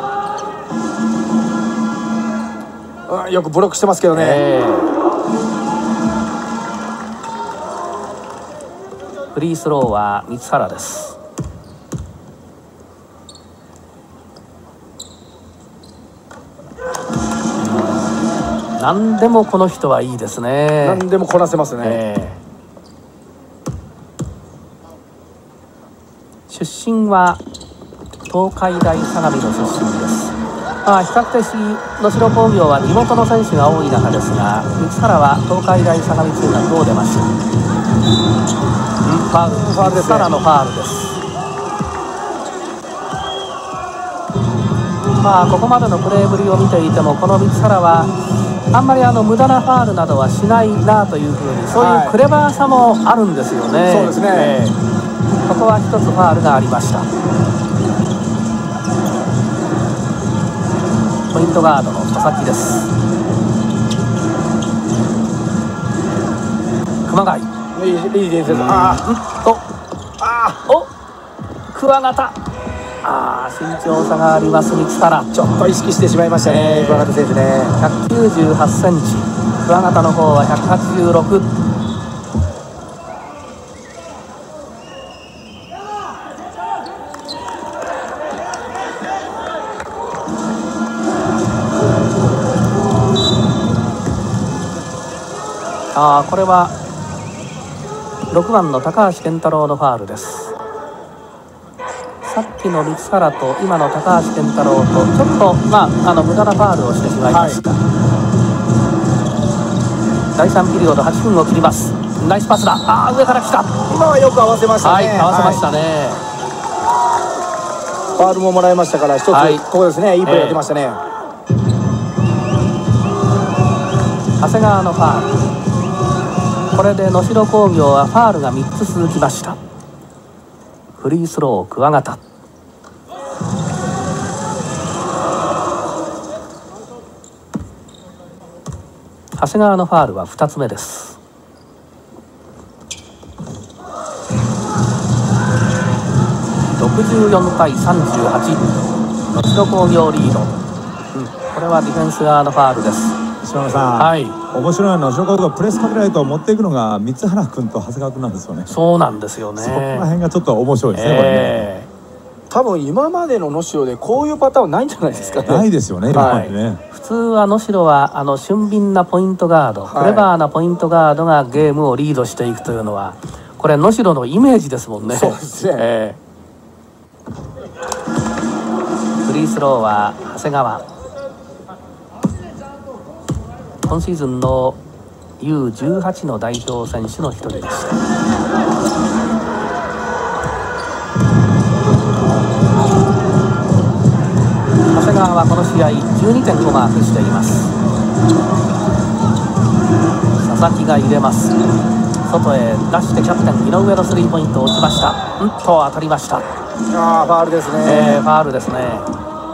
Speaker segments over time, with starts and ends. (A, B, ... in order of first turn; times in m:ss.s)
0:03.1-0:04.4 A
0:04.1-0:04.9 B
0:09.3-0:11.2 B
0:17.6-0:18.2 B
0:18.8-0:21.0 B
0:20.8-0:22.0 A
0:21.8-0:22.4 B
0:26.5-0:27.4 B
0:28.3-0:37.3 B
0:39.0-0:41.2 B
0:39.5-0:40.3 A
0:45.2-0:48.1 B
0:48.7-0:54.8 B
0:51.7-0:52.2 A
0:53.9-0:54.6 A
0:55.4-0:57.1 B
1:01.3-1:02.9 B
1:07.1-1:07.5 B
1:07.7-1:09.0 A
1:08.4-1:09.6 B
1:10.2-1:10.6 A
1:11.7-1:12.4 B
1:13.0-1:15.3 B
1:15.3-1:17.7 A
1:16.4-1:17.1 B
1:17.8-1:21.5 B
1:36.0-1:36.7 B
1:38.3-1:40.5 B
1:42.2-1:47.8 B
1:47.3-1:47.6 A
1:50.4-1:53.8 B
1:53.9-1:55.6 A
1:54.8-1:56.2 B
1:58.2-2:01.0 A
1:59.3-1:59.6 B
2:00.2-2:00.6 B
2:04.4-2:05.4 B
2:06.7-2:09.6 B
2:11.0-2:12.2 B
2:19.4-2:21.2 B
2:26.8-2:28.7 B
2:29.3-2:30.5 B
2:31.1-2:33.2 B
2:33.4-2:38.7 C
2:34.0-2:34.4 B
2:38.7-2:40.1 B
2:39.6-2:41.7 C
2:40.9-2:41.9 B
2:42.5-2:46.5 A
2:45.1-2:45.6 B
2:45.5-2:46.8 C
2:46.2-2:56.2 B
2:49.9-2:50.3 A
2:55.1-2:55.9 A
2:59.2-3:00.8 B
3:03.8-3:04.8 B
3:05.4-3:08.0 B
3:14.9-3:17.7 B
3:20.4-3:21.6 B
3:22.2-3:26.5 B
3:26.9-3:28.2 A
3:27.8-3:29.1 B